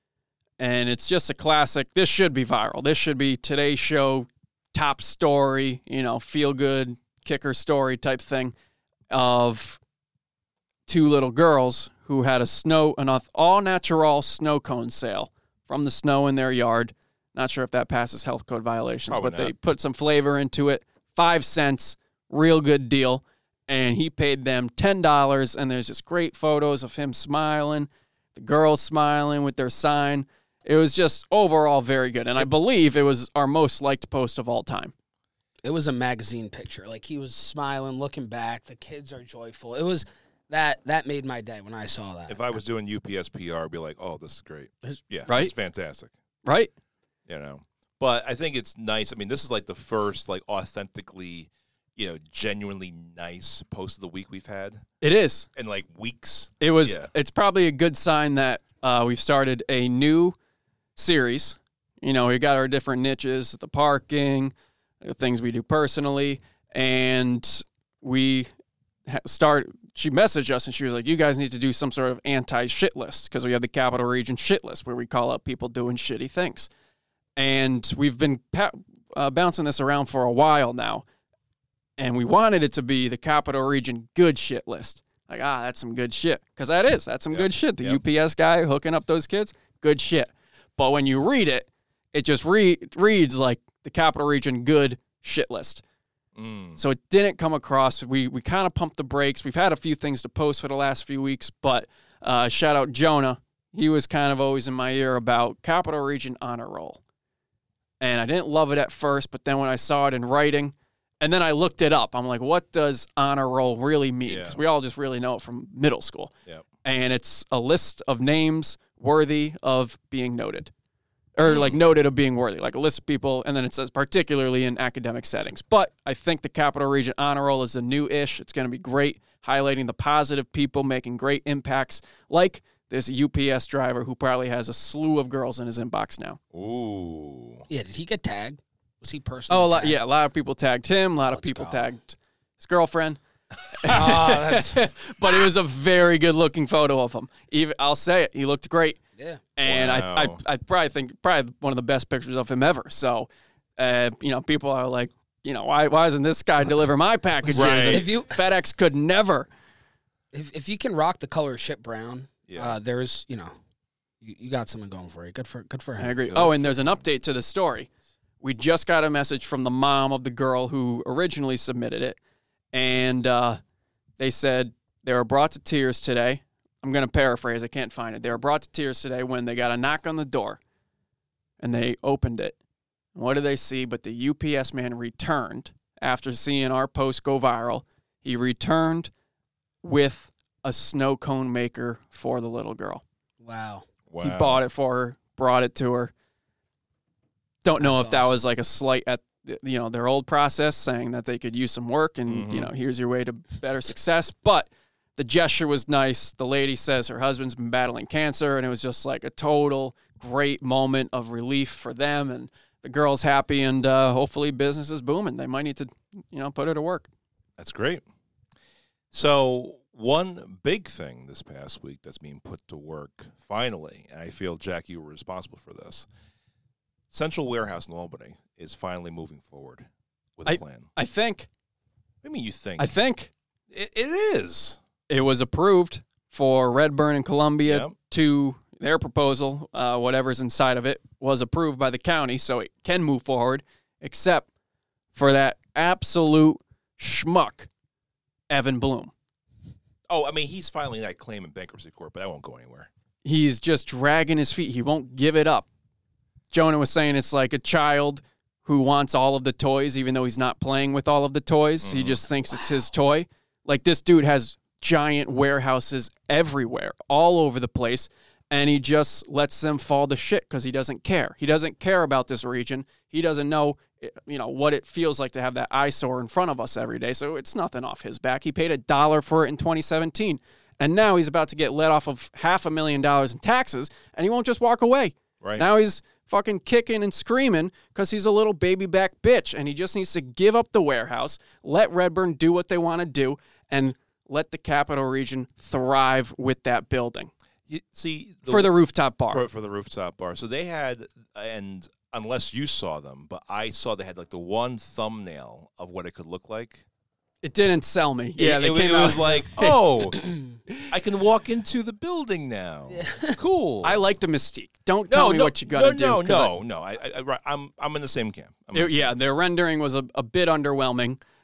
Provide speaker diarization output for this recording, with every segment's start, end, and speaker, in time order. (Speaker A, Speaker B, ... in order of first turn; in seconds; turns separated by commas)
Speaker A: 0.6-8.5, Speaker A: 9.1-9.8, Speaker A: 10.9-34.9, Speaker B: 19.1-19.5, Speaker C: 35.6-42.6, Speaker B: 42.3-46.1, Speaker A: 45.3-45.5, Speaker A: 46.4-46.7, Speaker B: 47.3-54.9, Speaker A: 55.0-55.5, Speaker B: 55.5-57.1, Speaker A: 56.6-60.4, Speaker A: 61.0-68.5, Speaker A: 69.1-76.7, Speaker A: 77.4-81.0, Speaker A: 82.0-95.8, Speaker B: 87.3-88.0, Speaker B: 96.4-96.8, Speaker A: 96.8-107.0, Speaker A: 108.0-116.3, Speaker B: 114.3-114.6, Speaker A: 116.8-120.7, Speaker A: 121.4-136.4, Speaker B: 121.5-121.8, Speaker B: 136.5-137.7, Speaker C: 137.7-140.0, Speaker A: 139.5-143.2, Speaker C: 141.3-141.9, Speaker A: 143.7-149.0, Speaker C: 143.9-144.8, Speaker C: 149.2-149.4, Speaker A: 149.6-159.5, Speaker B: 149.7-150.4, Speaker B: 157.5-158.1, Speaker C: 157.8-158.4, Speaker C: 160.3-163.6, Speaker B: 162.5-162.8, Speaker C: 164.2-166.2, Speaker A: 166.0-167.9, Speaker B: 166.3-167.0, Speaker A: 168.4-172.2, Speaker A: 172.7-173.6, Speaker A: 174.2-180.6, Speaker A: 181.6-182.6, Speaker A: 183.2-189.1, Speaker A: 189.8-193.0, Speaker C: 193.4-193.9, Speaker B: 194.1-194.6, Speaker A: 194.2-196.1, Speaker A: 197.6-217.1, Speaker C: 197.8-198.4, Speaker B: 202.3-202.7, Speaker B: 217.6-218.0, Speaker B: 219.1-226.1, Speaker B: 227.1-230.9, Speaker A: 230.5-231.5, Speaker B: 232.2-233.0, Speaker A: 232.8-233.3, Speaker B: 233.7-234.8, Speaker A: 235.1-244.5, Speaker B: 237.7-237.9, Speaker A: 245.2-247.7, Speaker A: 248.5-249.1, Speaker B: 250.1-252.9, Speaker A: 253.2-255.7, Speaker A: 256.5-297.3, Speaker B: 261.8-262.2, Speaker B: 297.7-298.7, Speaker A: 298.5-299.4, Speaker B: 299.3-306.8, Speaker A: 307.4-309.8, Speaker B: 308.4-310.2, Speaker B: 310.9-314.0, Speaker C: 312.9-313.4, Speaker A: 313.8-316.5, Speaker B: 315.1-319.1, Speaker A: 318.7-321.2